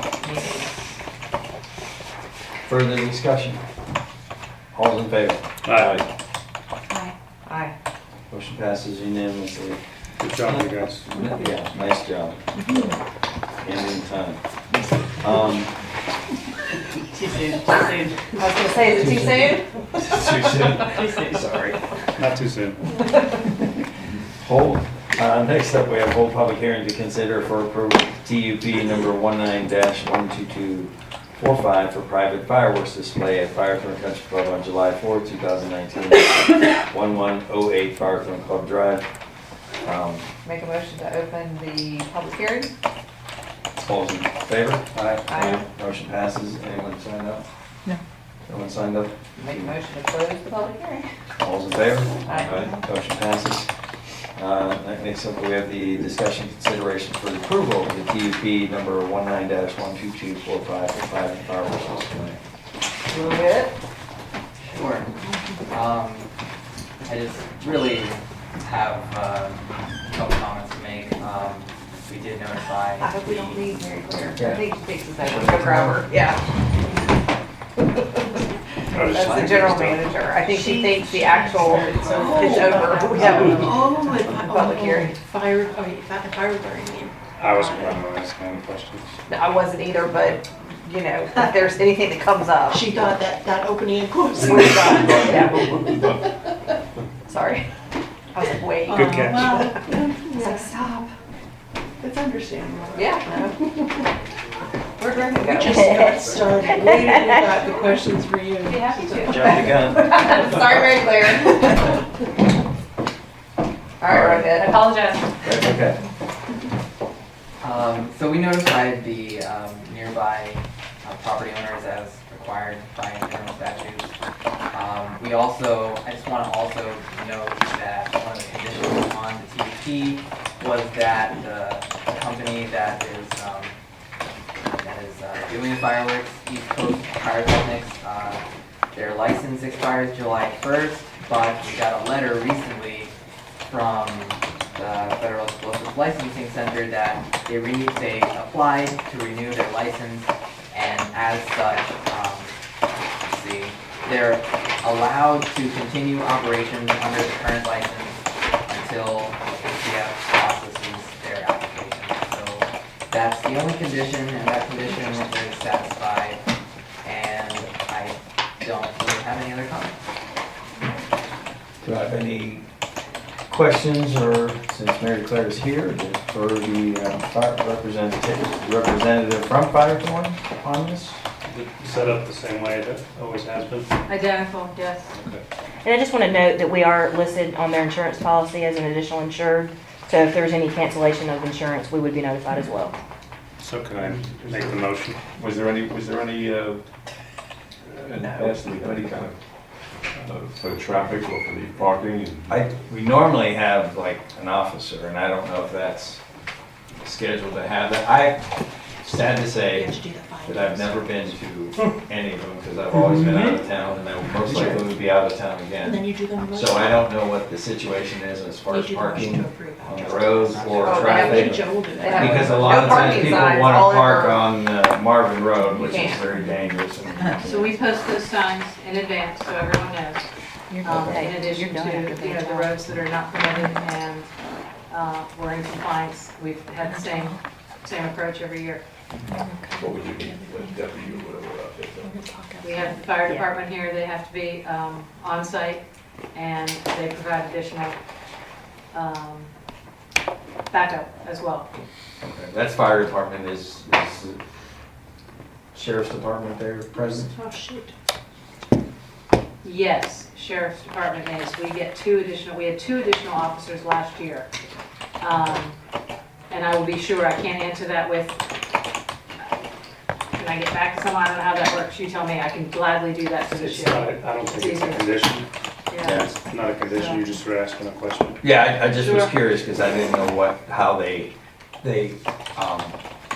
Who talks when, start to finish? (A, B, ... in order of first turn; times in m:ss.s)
0:00.2-0:01.0 A
0:02.6-0:03.6 B
0:04.7-0:06.0 B
0:07.4-0:07.7 A
0:08.3-0:09.8 B
0:10.2-0:11.0 C
0:11.1-0:12.4 B
0:13.6-0:14.4 B
0:15.2-0:15.7 B
0:18.4-0:21.4 A
0:18.9-0:21.7 B
0:22.2-0:22.8 C
0:24.4-0:39.0 B
0:39.8-0:40.3 B
0:40.4-0:42.7 A
0:43.8-0:47.4 B
0:45.3-0:45.6 A
0:48.5-0:49.7 B
0:49.4-0:51.1 A
0:51.4-0:53.7 B
0:52.2-0:52.8 A
0:54.4-1:02.4 B
1:03.1-1:03.8 A
1:04.6-1:05.1 D
1:04.8-1:05.6 A
1:05.7-1:06.3 D
1:07.0-1:13.6 D
1:13.0-1:16.4 A
1:14.4-1:14.6 B
1:17.9-1:18.2 A
1:18.9-1:20.0 C
1:19.1-1:25.2 A
1:20.4-1:28.0 E
1:21.9-1:22.4 C
1:23.1-1:23.5 C
1:27.4-1:29.1 C
1:29.3-1:32.9 A
1:32.7-1:35.5 E
1:34.4-1:36.2 A
1:34.6-1:36.0 F
1:37.3-1:37.7 A
1:38.3-1:41.1 A
1:38.7-1:40.8 E
1:38.9-1:39.5 C
1:42.0-1:44.0 E
1:42.9-1:43.7 A
1:45.0-1:46.2 A
1:45.2-1:50.0 E
1:48.6-1:49.5 G
1:49.3-1:50.3 B
1:49.4-1:52.1 A
1:54.0-1:54.8 A
1:54.1-1:54.5 B
1:54.4-1:55.4 G
1:55.4-1:56.0 B
1:57.6-2:04.1 D
2:04.7-2:13.7 D
2:14.8-2:18.4 D
2:18.9-2:23.1 D
2:23.7-2:32.5 D
2:33.2-2:46.4 D
2:47.0-2:50.0 D
2:51.8-2:52.6 B
2:53.5-3:01.2 B
3:01.5-3:03.9 C
3:04.0-3:05.2 G
3:05.2-3:05.4 C
3:05.8-3:13.0 H
3:13.6-3:15.2 C
3:14.0-3:16.8 F
3:17.9-3:19.3 F
3:20.2-3:22.5 F
3:22.5-3:26.2 B
3:27.0-3:28.4 B
3:29.0-3:29.9 B
3:29.7-3:31.3 E
3:30.4-3:47.8 B
3:34.5-3:34.8 E
3:35.8-3:37.1 E
3:38.7-3:43.5 E
3:40.5-3:40.9 D
3:40.8-3:44.5 A
3:45.9-3:46.2 A
3:47.5-3:50.3 G
3:50.7-3:52.8 H
3:50.8-3:54.3 G
3:50.9-3:51.2 B
3:54.9-3:58.8 G
3:59.3-4:00.0 H
3:59.8-4:02.2 F
4:02.1-4:02.6 H
4:02.6-4:08.0 G
4:08.9-4:09.5 G
4:10.7-4:11.7 G
4:12.2-4:14.4 B
4:15.7-4:17.3 B
4:17.0-4:17.9 E
4:19.6-4:24.5 G
4:25.2-4:25.8 G
4:26.5-4:28.4 G
4:30.3-4:35.1 G
4:33.6-4:35.5 C
4:35.9-4:36.2 G
4:36.0-4:36.3 B
4:36.2-4:38.4 C
4:36.9-4:37.3 G
4:38.4-4:43.0 B
4:38.9-4:39.3 G